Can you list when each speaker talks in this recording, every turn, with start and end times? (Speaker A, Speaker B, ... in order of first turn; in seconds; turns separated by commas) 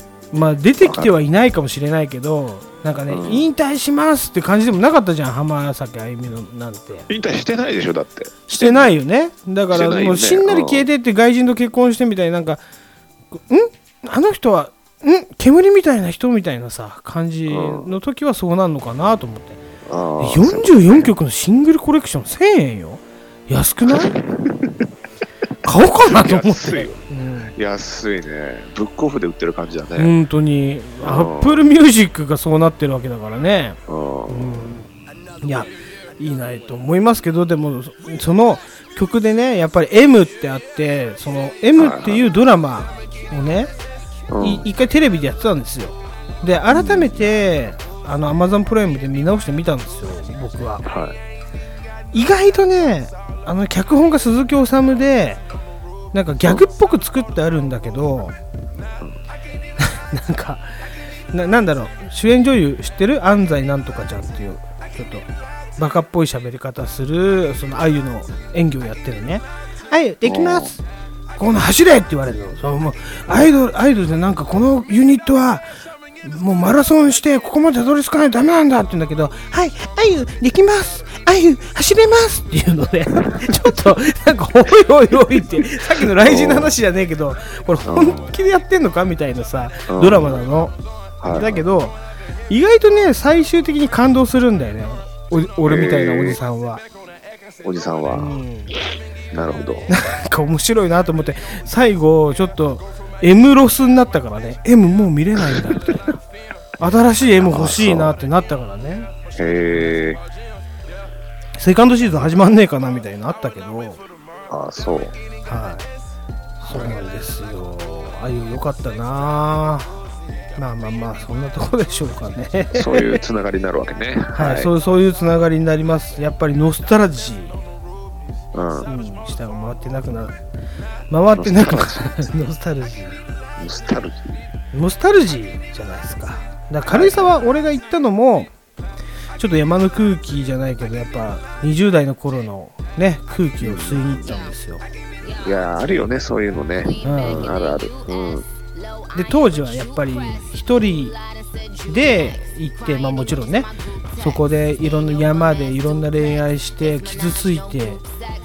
Speaker A: 0.3-7.1, Speaker B: 0.8-1.1, Speaker B: 3.1-3.4, Speaker B: 7.1-8.9, Speaker A: 8.5-12.6, Speaker B: 9.7-10.9, Speaker A: 13.3-19.6, Speaker B: 17.5-17.9, Speaker B: 19.9-21.1, Speaker A: 20.2-24.1, Speaker B: 23.9-24.9, Speaker A: 25.6-27.5, Speaker B: 25.8-27.0, Speaker B: 27.5-30.1, Speaker A: 30.0-34.9, Speaker B: 31.0-31.6, Speaker B: 33.9-34.7, Speaker A: 35.4-43.7, Speaker B: 41.8-42.3, Speaker B: 44.3-44.6, Speaker A: 44.4-50.9, Speaker B: 46.7-47.3, Speaker B: 50.8-51.1, Speaker A: 52.1-55.4, Speaker A: 56.1-58.4, Speaker A: 59.8-60.7, Speaker A: 61.3-65.3, Speaker A: 65.8-70.8, Speaker B: 70.2-70.7, Speaker A: 71.4-75.7, Speaker A: 76.2-90.7, Speaker B: 83.2-83.5, Speaker B: 86.2-86.8, Speaker B: 87.9-88.3, Speaker B: 89.9-90.4, Speaker B: 91.2-91.6, Speaker A: 91.3-92.0, Speaker A: 92.5-96.8, Speaker B: 95.7-96.4, Speaker B: 97.6-98.8, Speaker A: 98.1-98.7, Speaker B: 99.3-99.9, Speaker A: 99.9-106.1, Speaker A: 106.8-109.1, Speaker B: 107.4-108.2, Speaker B: 109.4-110.2, Speaker A: 111.6-114.0, Speaker B: 114.5-115.1, Speaker A: 115.5-115.9, Speaker A: 116.6-120.0, Speaker B: 116.7-116.9, Speaker A: 120.6-123.2, Speaker B: 122.7-124.7, Speaker A: 124.3-127.6, Speaker B: 128.5-128.9, Speaker A: 128.8-130.4, Speaker A: 131.1-133.2, Speaker B: 131.4-132.2, Speaker B: 133.6-134.4, Speaker A: 134.7-138.5, Speaker B: 136.9-137.3, Speaker A: 139.4-144.8, Speaker B: 143.6-144.2, Speaker B: 145.4-148.4, Speaker A: 147.0-147.5, Speaker A: 149.1-151.2, Speaker A: 151.9-158.0